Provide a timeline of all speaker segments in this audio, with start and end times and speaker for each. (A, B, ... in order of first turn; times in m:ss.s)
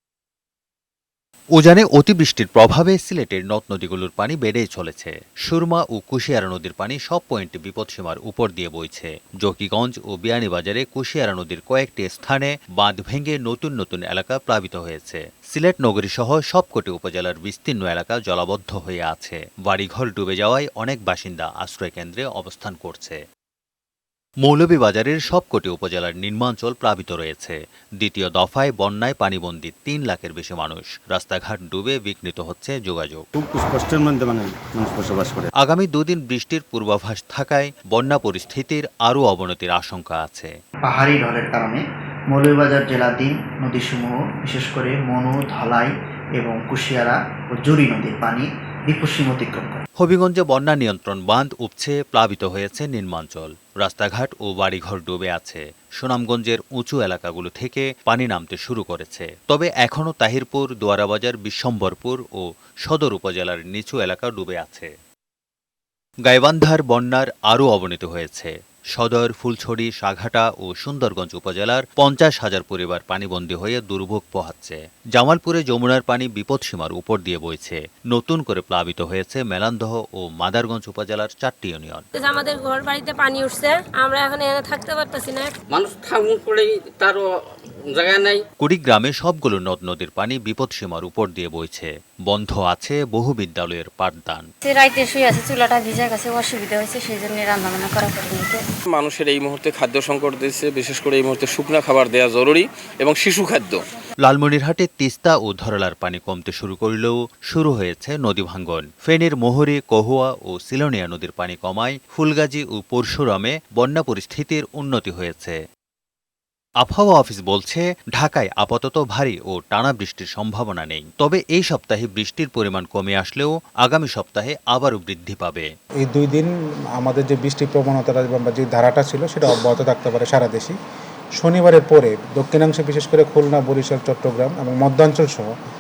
0:01.6-0:23.2 A
0:24.4-0:33.2 A
0:33.3-0:35.5 B
0:35.6-0:40.5 A
0:40.8-0:49.8 C
0:50.0-1:04.9 A
1:06.2-1:22.0 A
1:22.1-1:25.5 D
1:25.7-1:27.3 E
1:27.9-1:28.4 E
1:28.6-1:34.4 A
1:34.6-1:38.6 F
1:38.9-1:43.8 G
1:44.2-1:55.6 A
1:56.8-2:05.7 A
2:06.0-2:10.8 H
2:11.4-2:15.5 H